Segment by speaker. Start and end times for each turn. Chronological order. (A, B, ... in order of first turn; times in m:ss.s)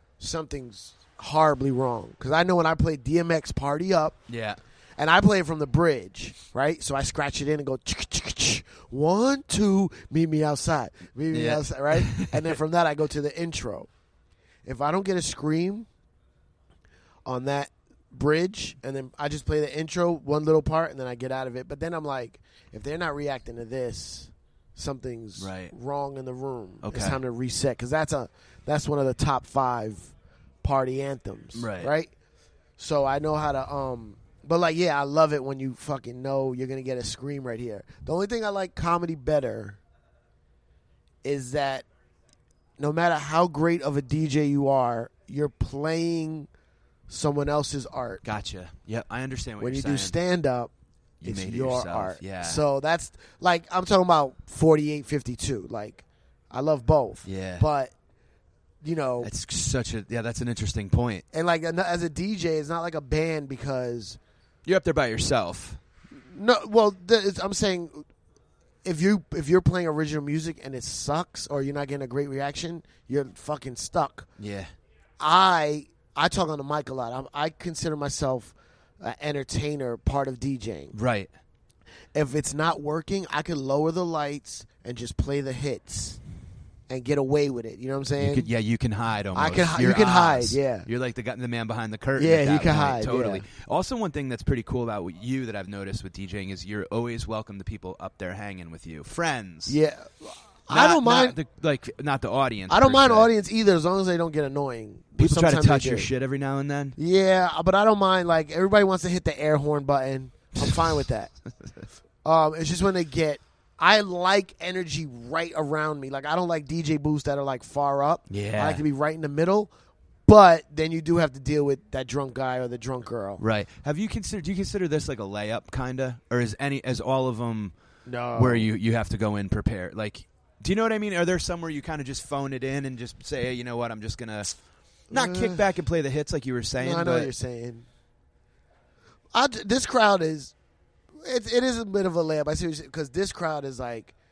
0:00.2-0:04.2 A
0:04.3-0:04.6 B
0:05.0-0:13.9 A
0:11.3-0:12.5 B
0:14.6-0:15.9 A
0:17.3-0:30.1 A
0:25.4-0:25.7 B
0:26.8-0:27.2 B
0:30.6-0:32.1 A
0:31.6-0:31.9 B
0:32.8-0:39.8 A
0:41.2-0:41.9 A
0:42.8-0:46.5 A
0:47.1-0:48.2 A
0:48.2-0:50.2 B
0:49.6-0:50.7 A
0:51.2-0:52.6 B
0:51.2-0:57.9 A
0:57.2-0:57.6 B
0:58.8-0:59.3 A
0:59.2-1:01.2 B
1:01.3-1:04.2 A
1:04.6-1:05.8 B
1:06.2-1:08.1 A
1:08.8-1:14.3 A
1:14.4-1:14.7 B
1:15.2-1:21.0 A
1:20.9-1:21.3 B
1:22.1-1:26.2 A
1:26.9-1:28.5 A
1:28.2-1:39.8 B
1:29.3-1:30.9 A
1:32.2-1:33.4 A
1:39.7-1:41.4 A
1:40.7-1:43.3 B
1:42.7-1:46.1 A
1:45.2-1:47.0 B
1:47.0-1:51.3 A
1:50.6-1:51.0 B
1:52.2-1:59.7 A
1:58.3-1:58.8 B
2:00.3-2:03.4 A
2:03.4-2:07.7 B
2:08.1-2:08.7 A
2:08.4-2:14.5 B
2:15.1-2:17.3 B
2:15.1-2:15.6 A
2:16.8-2:17.9 A
2:19.3-2:20.5 A
2:21.2-2:24.1 A